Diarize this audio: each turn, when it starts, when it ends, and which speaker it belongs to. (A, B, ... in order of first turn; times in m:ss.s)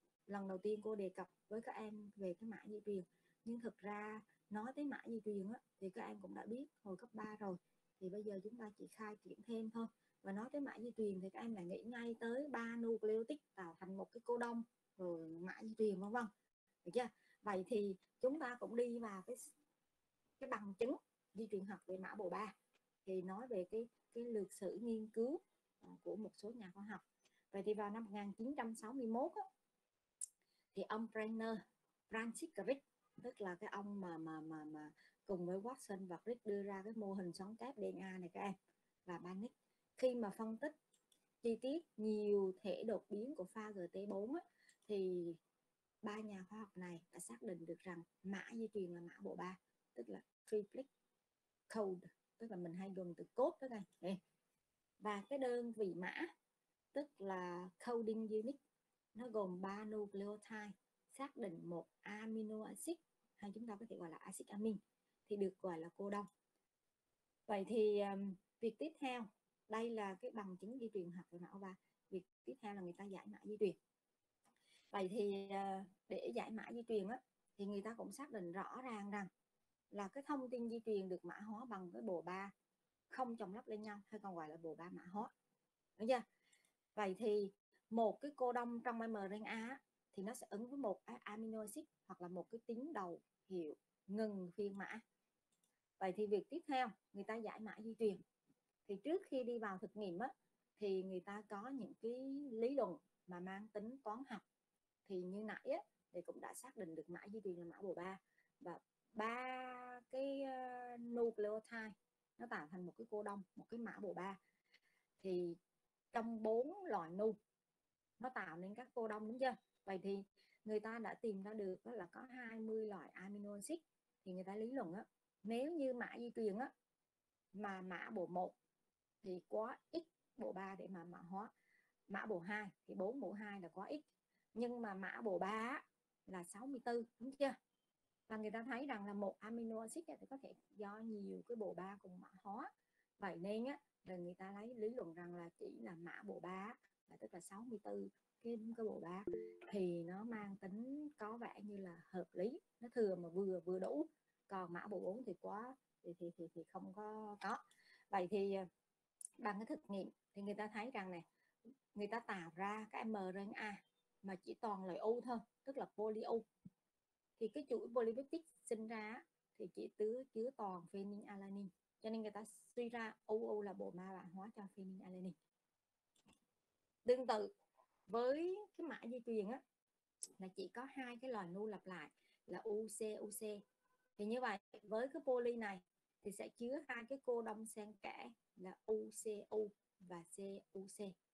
0:00.3-0:16.3 A
0:16.8-0:19.5 A
0:20.4-0:22.5 A
0:23.0-0:29.4 A
0:30.7-0:38.5 A
0:39.1-0:40.7 A
0:41.4-0:45.4 A
0:46.0-0:50.9 A
0:51.7-0:54.2 A
0:55.0-0:56.3 A
0:56.9-0:58.6 A
0:59.1-1:06.3 A
1:07.5-1:13.8 A
1:14.9-1:19.3 A
1:19.9-1:22.5 A
1:23.1-1:25.3 A
1:26.0-1:26.2 A
1:26.9-1:35.0 A
1:36.0-1:38.2 A
1:38.8-1:44.4 A
1:45.0-1:54.4 A
1:55.2-1:55.6 A
1:56.1-1:57.4 A
1:58.2-2:06.7 A
2:07.5-2:08.5 A
2:09.2-2:11.5 A
2:12.1-2:14.0 A
2:14.5-2:17.6 A
2:18.3-2:38.7 A
2:39.4-2:41.2 A
2:41.9-2:46.4 A
2:47.4-2:55.4 A
2:57.0-2:57.5 A
2:58.1-2:59.6 A
3:00.4-3:03.6 A
3:04.2-3:11.1 A